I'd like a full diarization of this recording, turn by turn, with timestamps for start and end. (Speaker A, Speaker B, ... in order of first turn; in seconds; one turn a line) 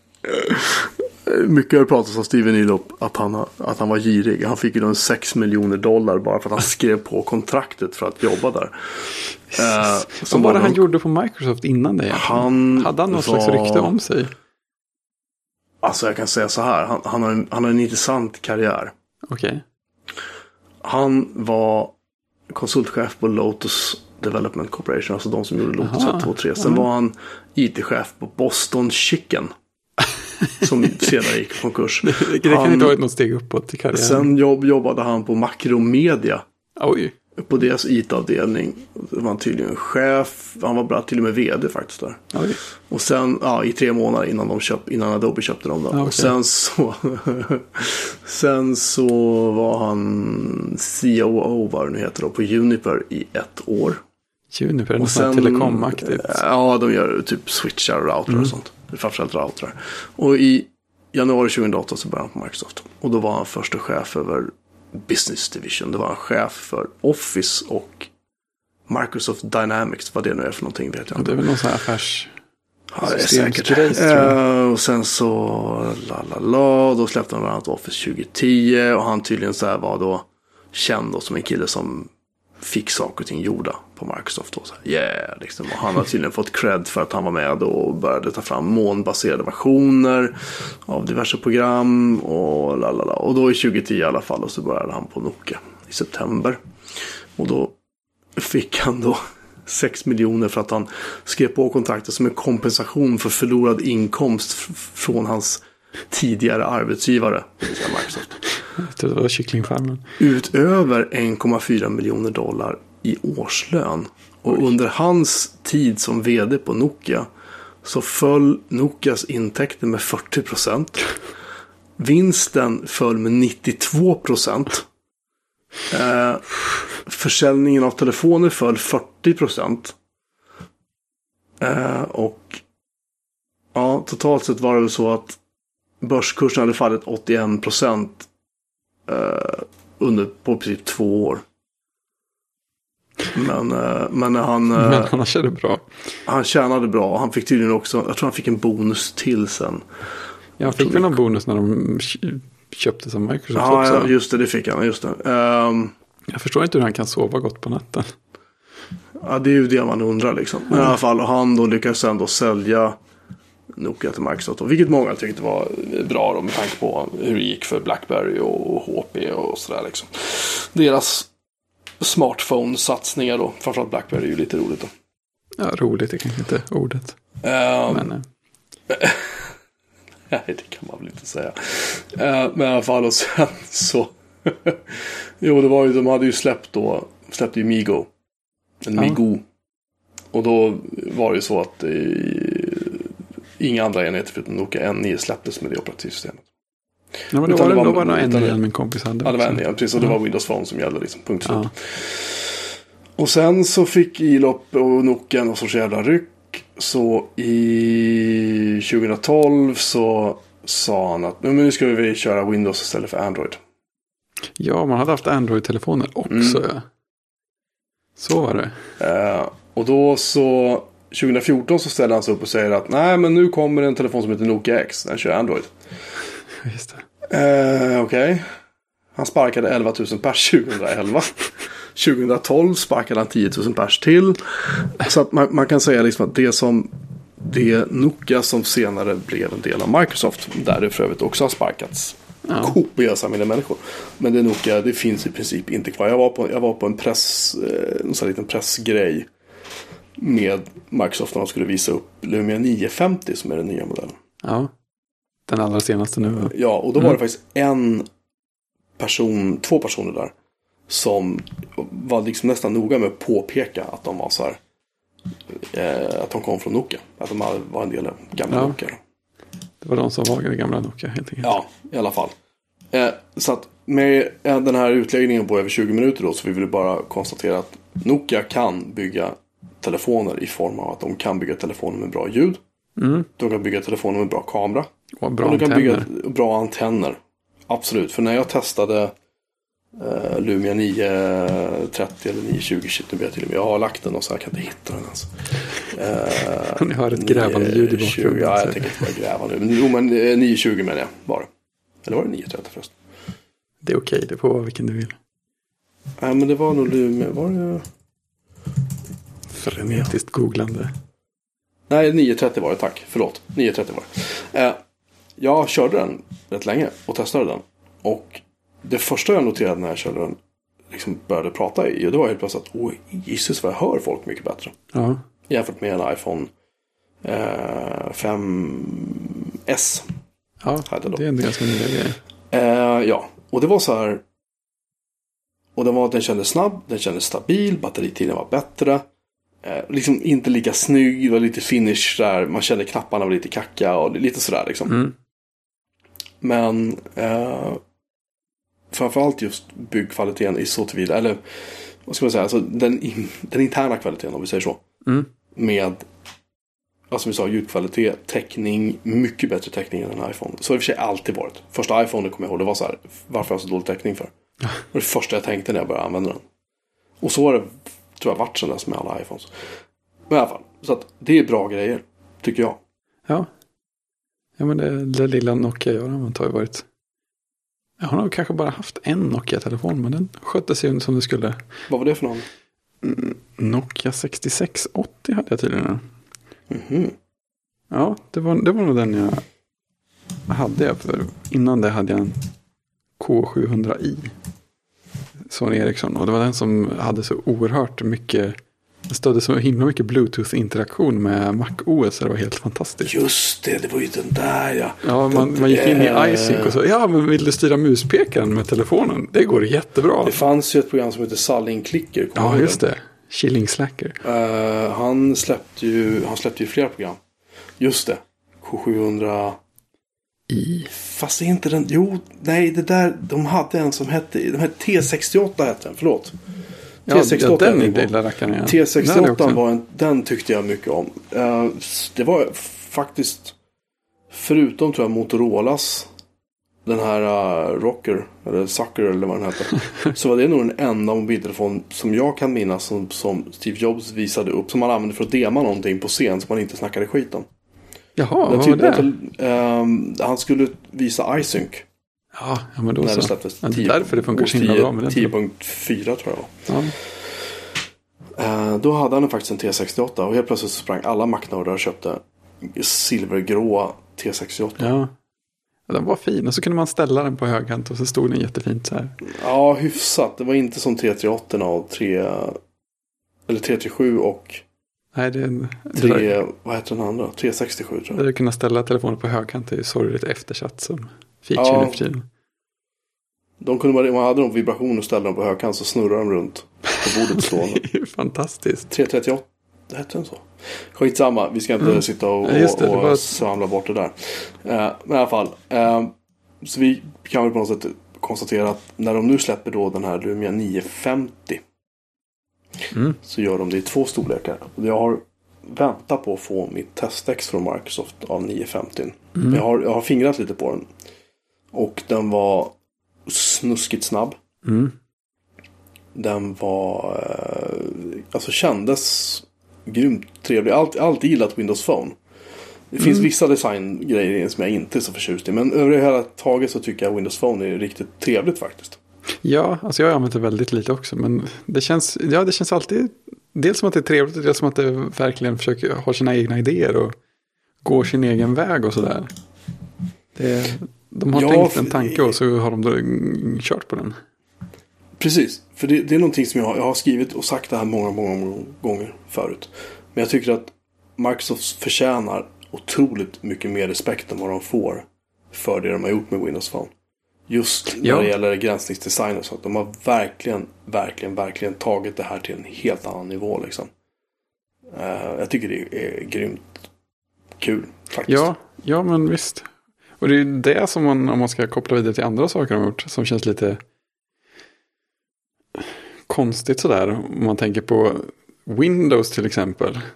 Speaker A: 0.2-10.8
Speaker B: 9.5-14.3
Speaker A: 12.1-13.9
Speaker A: 15.8-18.9
Speaker B: 19.3-19.6
Speaker A: 20.8-21.9
Speaker A: 22.5-29.5
Speaker B: 25.8-26.9
Speaker A: 30.6-33.0
Speaker B: 32.0-34.3
Speaker A: 33.9-36.4
Speaker B: 36.8-37.1
Speaker A: 37.4-42.2
Speaker B: 42.3-42.6
Speaker A: 42.9-54.0
Speaker B: 45.9-46.3
Speaker B: 54.5-56.4
Speaker A: 55.0-68.1
Speaker A: 68.9-71.4
Speaker B: 71.1-72.3
Speaker A: 72.9-96.6
Speaker B: 73.0-74.4
Speaker A: 97.4-97.7
Speaker A: 98.3-108.4
Speaker B: 108.8-110.0
Speaker A: 110.2-117.3
Speaker A: 117.8-121.1
Speaker A: 122.0-124.9
Speaker A: 125.9-129.9
Speaker A: 131.6-132.6
Speaker A: 133.7-135.4
Speaker A: 136.0-138.3
Speaker A: 139.1-141.4
Speaker A: 143.3-145.1
Speaker B: 144.7-145.9
Speaker A: 146.2-149.8
Speaker B: 150.6-154.1
Speaker A: 150.6-151.1
Speaker A: 153.5-155.9
Speaker B: 156.3-158.1
Speaker A: 159.2-162.9
Speaker B: 160.7-160.9
Speaker A: 163.8-171.3
Speaker A: 172.0-174.9
Speaker B: 175.6-177.2
Speaker A: 177.4-178.1
Speaker B: 177.9-178.2
Speaker A: 178.9-179.5
Speaker A: 180.3-188.1
Speaker A: 188.8-189.4
Speaker A: 190.3-193.1
Speaker A: 193.6-196.4
Speaker B: 197.3-200.2
Speaker A: 197.4-198.6
Speaker A: 199.2-202.6
Speaker B: 201.4-201.7
Speaker A: 203.2-213.6
Speaker B: 214.6-216.8
Speaker A: 216.3-216.6
Speaker B: 218.2-218.8
Speaker A: 219.0-225.7
Speaker B: 226.6-227.0
Speaker A: 227.3-228.4
Speaker A: 229.2-249.3
Speaker B: 242.5-242.8
Speaker A: 250.2-254.1
Speaker B: 254.4-254.7
Speaker B: 255.5-257.1
Speaker A: 256.4-258.1
Speaker A: 259.0-260.3
Speaker A: 260.9-264.6
Speaker A: 265.6-269.0
Speaker B: 268.5-268.8
Speaker B: 269.8-271.6
Speaker A: 271.4-272.3
Speaker A: 272.9-282.6
Speaker B: 283.0-283.3
Speaker A: 283.4-284.9
Speaker B: 285.2-286.1
Speaker A: 285.4-287.2
Speaker A: 287.7-289.1
Speaker A: 290.0-301.5
Speaker B: 296.7-299.0
Speaker A: 302.0-302.9
Speaker B: 303.8-305.1
Speaker A: 306.2-307.8
Speaker B: 309.5-310.9
Speaker A: 311.9-314.8
Speaker A: 315.4-320.4
Speaker A: 320.9-324.8
Speaker B: 324.9-325.2
Speaker A: 325.5-326.5
Speaker A: 327.2-330.1
Speaker B: 330.6-332.2
Speaker A: 330.9-331.2
Speaker A: 332.5-334.2
Speaker A: 335.8-339.0
Speaker A: 339.6-345.0
Speaker B: 344.9-345.1
Speaker A: 346.4-347.8
Speaker A: 348.9-351.4
Speaker A: 352.1-354.8
Speaker A: 355.6-356.0
Speaker A: 357.1-364.3
Speaker A: 364.9-366.4
Speaker A: 367.2-369.5
Speaker A: 370.3-372.8
Speaker B: 374.6-376.8
Speaker B: 378.0-381.6
Speaker A: 381.9-382.4
Speaker B: 383.0-386.0
Speaker A: 386.7-387.1
Speaker B: 387.9-389.4
Speaker B: 390.5-392.4
Speaker B: 393.2-394.3
Speaker B: 395.5-398.6
Speaker B: 399.1-403.1
Speaker A: 403.0-406.8
Speaker B: 405.0-410.4
Speaker A: 410.2-412.8
Speaker B: 412.4-414.2
Speaker A: 414.2-417.2
Speaker A: 417.8-419.6
Speaker B: 420.5-420.9
Speaker A: 420.9-426.3
Speaker B: 427.1-429.6
Speaker A: 427.1-428.1
Speaker A: 428.6-433.5
Speaker A: 434.3-436.1
Speaker A: 436.9-447.4
Speaker B: 448.2-449.1
Speaker A: 448.4-451.8
Speaker B: 452.3-455.3
Speaker A: 453.0-456.7
Speaker B: 456.7-456.9
Speaker A: 458.4-464.9
Speaker B: 464.8-465.1
Speaker B: 465.9-469.1
Speaker A: 469.2-472.6
Speaker A: 473.5-474.6
Speaker B: 475.1-476.3
Speaker A: 475.9-478.2
Speaker B: 478.1-482.2
Speaker A: 481.6-482.0
Speaker A: 483.6-487.8
Speaker B: 487.1-488.9
Speaker A: 488.9-496.1
Speaker B: 491.8-493.3
Speaker A: 496.6-501.6
Speaker B: 502.9-503.2
Speaker A: 503.2-510.9
Speaker B: 509.4-509.6
Speaker A: 511.7-512.7
Speaker A: 513.3-514.4
Speaker B: 514.6-515.0
Speaker A: 516.1-522.1
Speaker A: 522.9-529.0
Speaker B: 523.0-523.3
Speaker B: 529.4-537.1
Speaker B: 537.8-539.3
Speaker B: 540.3-544.2
Speaker A: 541.3-542.3
Speaker A: 545.2-556.9
Speaker A: 557.5-563.9
Speaker B: 558.0-558.3
Speaker A: 564.9-566.7
Speaker A: 567.6-568.5
Speaker B: 568.3-569.7
Speaker B: 570.2-573.8
Speaker B: 575.8-580.0